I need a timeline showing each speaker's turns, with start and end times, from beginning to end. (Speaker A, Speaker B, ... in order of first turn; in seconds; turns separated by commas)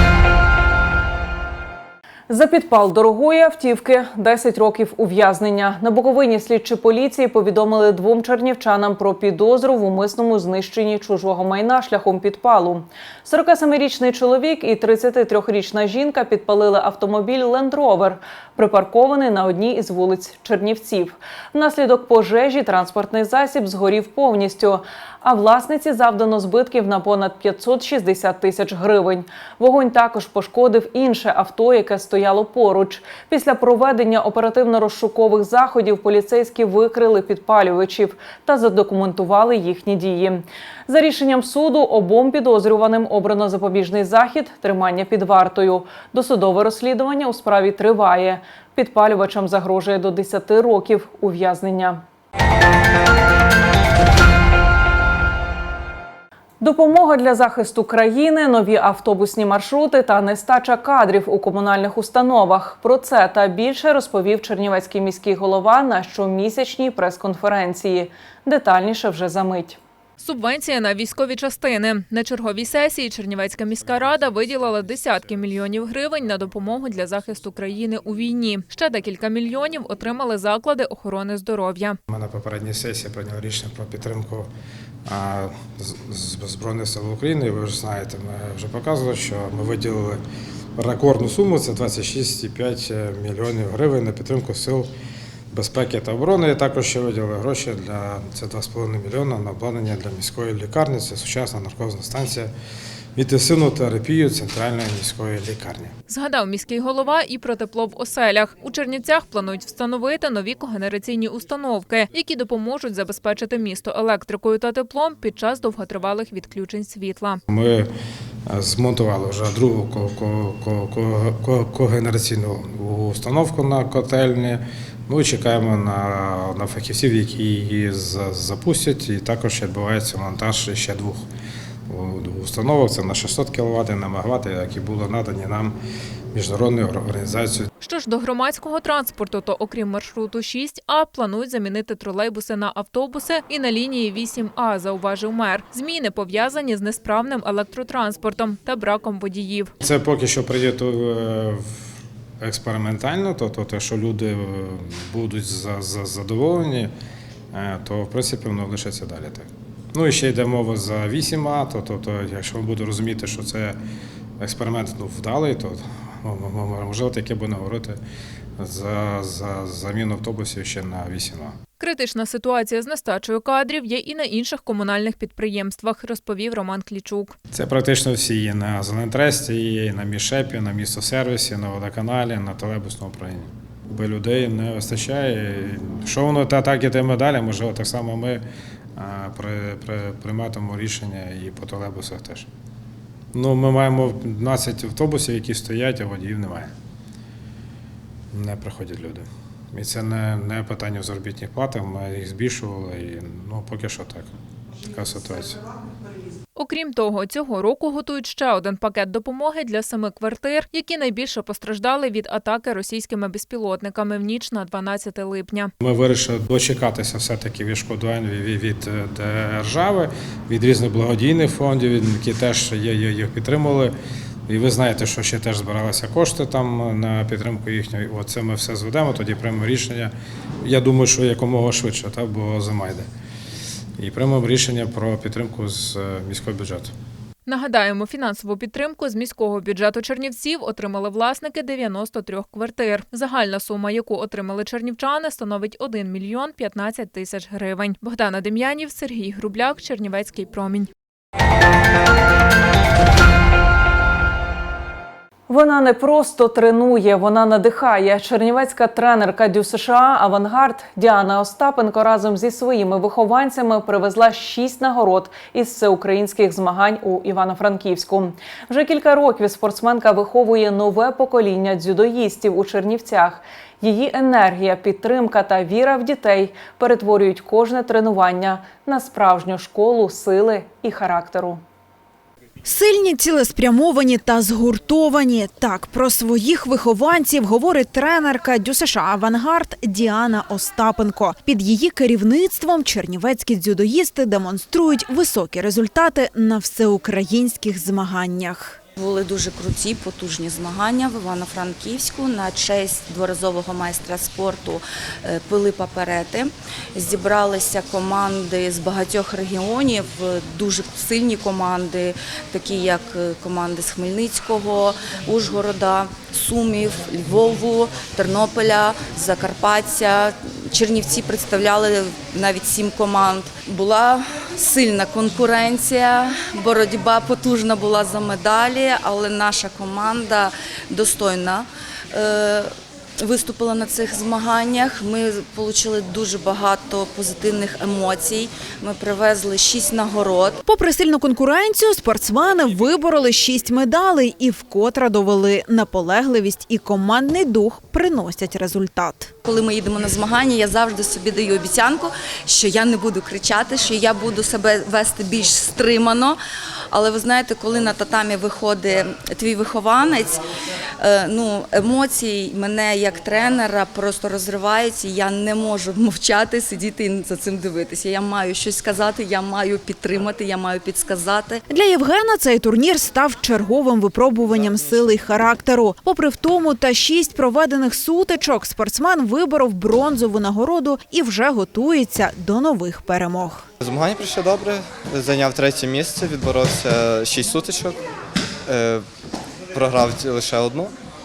Speaker A: 2.3-52.0, Speaker A: 56.6-69.8, Speaker B: 70.2-82.0, Speaker C: 82.1-84.5, Speaker C: 85.1-90.2, Speaker C: 90.8-94.9, Speaker C: 95.5-102.5, Speaker C: 103.2-105.9, Speaker B: 106.1-117.4, Speaker C: 117.5-117.9, Speaker C: 118.5-131.2, Speaker C: 131.9-135.8, Speaker C: 136.3-137.7, Speaker B: 137.8-149.7, Speaker C: 149.8-151.6, Speaker C: 152.4-156.9, Speaker C: 157.5-163.8, Speaker C: 164.4-168.0, Speaker C: 168.6-171.6, Speaker B: 171.8-177.3, Speaker C: 177.5-188.4, Speaker C: 189.0-192.5, Speaker C: 193.3-196.7, Speaker C: 198.3-204.3, Speaker C: 204.8-205.7, Speaker B: 206.6-215.7, Speaker C: 215.8-223.9, Speaker C: 224.5-230.1, Speaker C: 230.6-233.1, Speaker C: 234.0-236.9, Speaker B: 237.4-250.9, Speaker A: 255.5-281.6, Speaker D: 282.6-298.8, Speaker E: 299.0-332.7, Speaker E: 333.2-340.6, Speaker D: 340.6-349.3, Speaker E: 349.4-356.4, Speaker E: 356.9-360.4, Speaker E: 361.0-371.6, Speaker D: 371.7-383.7, Speaker F: 383.8-388.0, Speaker F: 388.7-389.1, Speaker F: 389.7-390.9